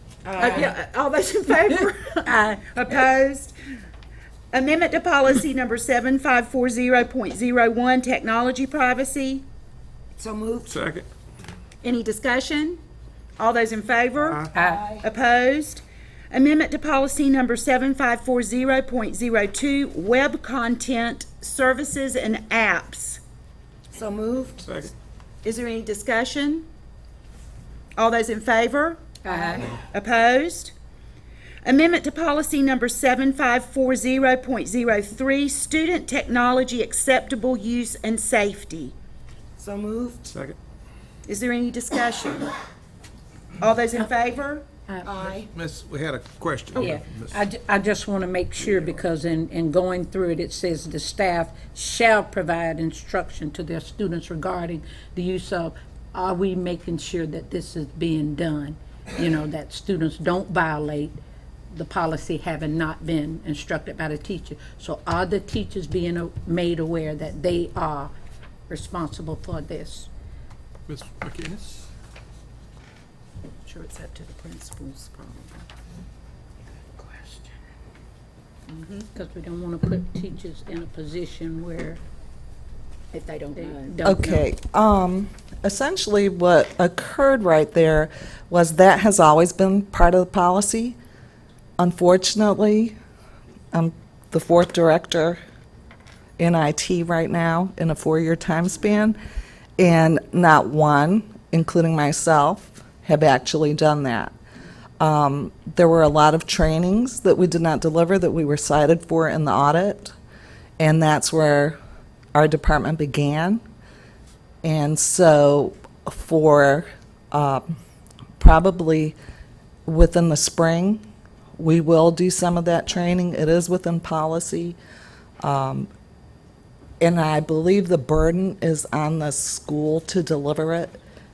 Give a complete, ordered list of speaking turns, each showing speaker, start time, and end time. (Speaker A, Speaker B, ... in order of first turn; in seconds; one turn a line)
Speaker A: 0.2-0.7
Speaker B: 0.4-3.5
Speaker C: 2.2-2.8
Speaker B: 4.5-9.5
Speaker A: 10.2-10.8
Speaker D: 10.7-11.1
Speaker B: 11.8-12.8
Speaker B: 13.4-14.5
Speaker A: 14.5-15.1
Speaker C: 14.5-14.9
Speaker B: 15.0-23.2
Speaker A: 23.9-24.7
Speaker D: 24.7-24.9
Speaker B: 25.4-26.7
Speaker B: 28.0-30.7
Speaker C: 29.2-29.7
Speaker B: 31.6-38.9
Speaker A: 39.6-40.3
Speaker D: 40.3-40.6
Speaker B: 41.3-42.5
Speaker B: 43.6-44.6
Speaker C: 44.9-45.2
Speaker A: 45.0-45.5
Speaker D: 45.4-47.4
Speaker C: 46.8-61.2
Speaker C: 61.7-68.1
Speaker C: 68.7-70.1
Speaker D: 70.9-71.9
Speaker B: 73.7-75.7
Speaker C: 77.0-77.5
Speaker B: 78.7-79.1
Speaker C: 79.1-82.0
Speaker B: 83.1-83.9
Speaker C: 83.5-84.5
Speaker E: 84.0-91.0
Speaker E: 91.8-93.0
Speaker E: 93.7-95.4
Speaker E: 96.4-99.2
Speaker E: 99.8-104.3
Speaker E: 105.0-110.1
Speaker E: 110.8-111.8
Speaker E: 112.3-113.6
Speaker E: 114.6-117.7
Speaker E: 118.4-119.2
Speaker E: 119.9-121.0
Speaker E: 121.6-124.8
Speaker E: 125.4-125.9
Speaker E: 127.0-131.0